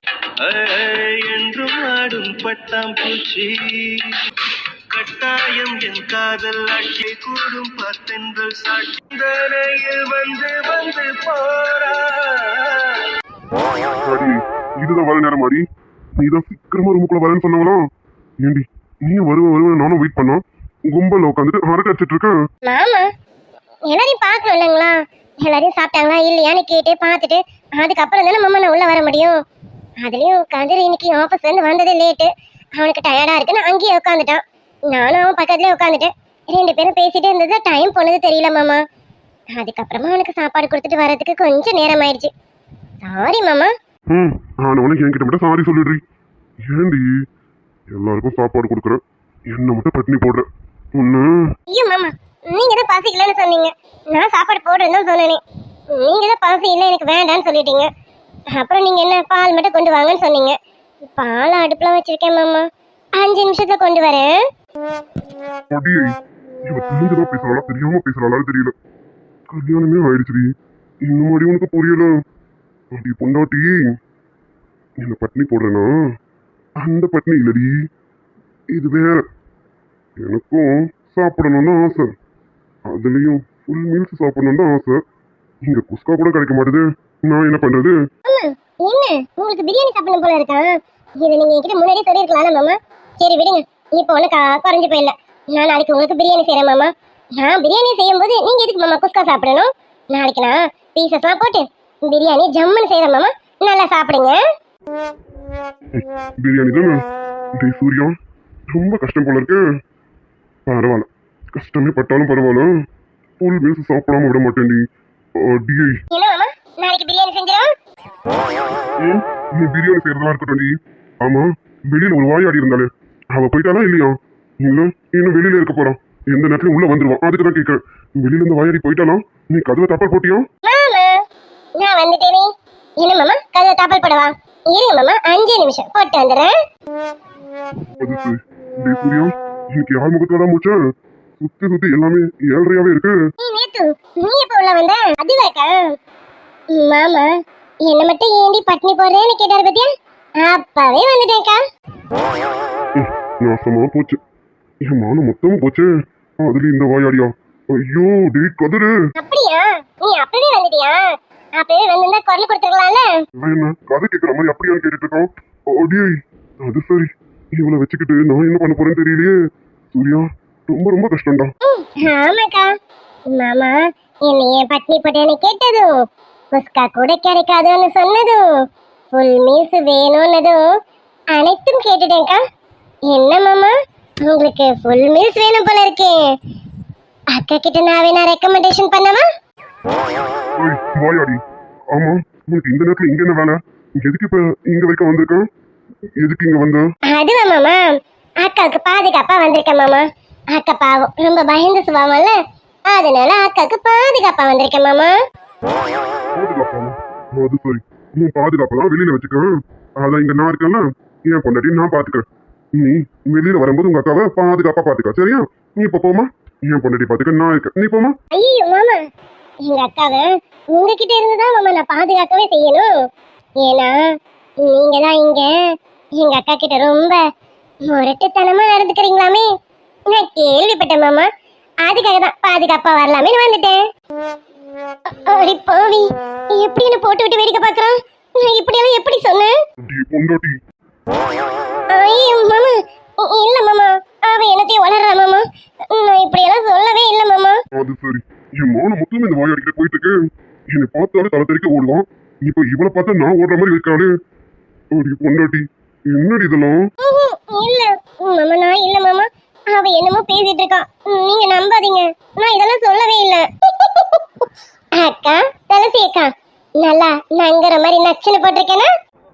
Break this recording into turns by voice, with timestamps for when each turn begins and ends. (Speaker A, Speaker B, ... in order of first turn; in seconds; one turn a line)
Speaker A: 0.4-4.0
Speaker A: 4.9-13.1
Speaker B: 14.1-15.6
Speaker B: 16.2-17.8
Speaker B: 18.4-22.4
Speaker C: 22.7-23.1
Speaker C: 23.9-29.4
Speaker C: 30.0-38.8
Speaker C: 39.6-42.3
Speaker C: 43.0-43.7
Speaker B: 44.1-46.0
Speaker B: 46.6-47.1
Speaker B: 47.9-51.4
Speaker C: 51.7-55.4
Speaker C: 55.9-57.9
Speaker C: 58.5-62.7
Speaker C: 63.2-64.4
Speaker B: 65.7-66.1
Speaker B: 66.7-68.7
Speaker B: 69.5-70.5
Speaker B: 71.1-72.1
Speaker B: 72.9-73.9
Speaker B: 75.0-75.9
Speaker B: 76.8-77.7
Speaker B: 78.7-79.2
Speaker B: 80.2-82.1
Speaker B: 82.9-85.0
Speaker B: 85.7-88.0
Speaker C: 88.3-104.4
Speaker B: 105.9-107.0
Speaker B: 107.6-108.2
Speaker B: 108.7-109.6
Speaker B: 110.7-112.7
Speaker B: 113.4-114.8
Speaker B: 115.4-116.0
Speaker C: 116.1-117.7
Speaker B: 119.0-130.5
Speaker C: 130.7-131.2
Speaker C: 131.8-136.5
Speaker B: 138.0-140.8
Speaker B: 141.4-143.2
Speaker C: 143.4-145.9
Speaker C: 146.7-147.3
Speaker C: 147.8-149.9
Speaker C: 150.4-151.6
Speaker B: 153.0-154.2
Speaker B: 154.9-155.9
Speaker B: 156.4-158.9
Speaker C: 159.2-161.0
Speaker C: 161.6-163.1
Speaker B: 163.4-166.1
Speaker B: 166.6-169.3
Speaker B: 169.9-171.5
Speaker C: 171.7-172.7
Speaker C: 173.3-175.9
Speaker C: 176.6-178.4
Speaker C: 179.1-180.6
Speaker C: 181.3-182.4
Speaker C: 183.1-186.3
Speaker C: 187.3-189.3
Speaker B: 190.6-191.4
Speaker B: 191.9-195.5
Speaker B: 196.2-196.8
Speaker C: 197.1-197.8
Speaker C: 198.4-202.4
Speaker C: 202.9-205.1
Speaker B: 206.4-209.5
Speaker B: 210.0-218.1
Speaker C: 218.3-219.0
Speaker C: 219.7-222.9
Speaker C: 223.6-224.1
Speaker C: 224.6-225.6
Speaker C: 226.2-227.2
Speaker C: 227.9-229.5
Speaker C: 230.1-231.3
Speaker C: 231.8-233.8
Speaker C: 235.1-239.5
Speaker B: 239.8-240.5
Speaker C: 241.9-247.6
Speaker B: 247.8-250.1
Speaker B: 250.7-254.1
Speaker B: 254.9-256.8
Speaker C: 257.0-264.2
Speaker C: 265.0-268.9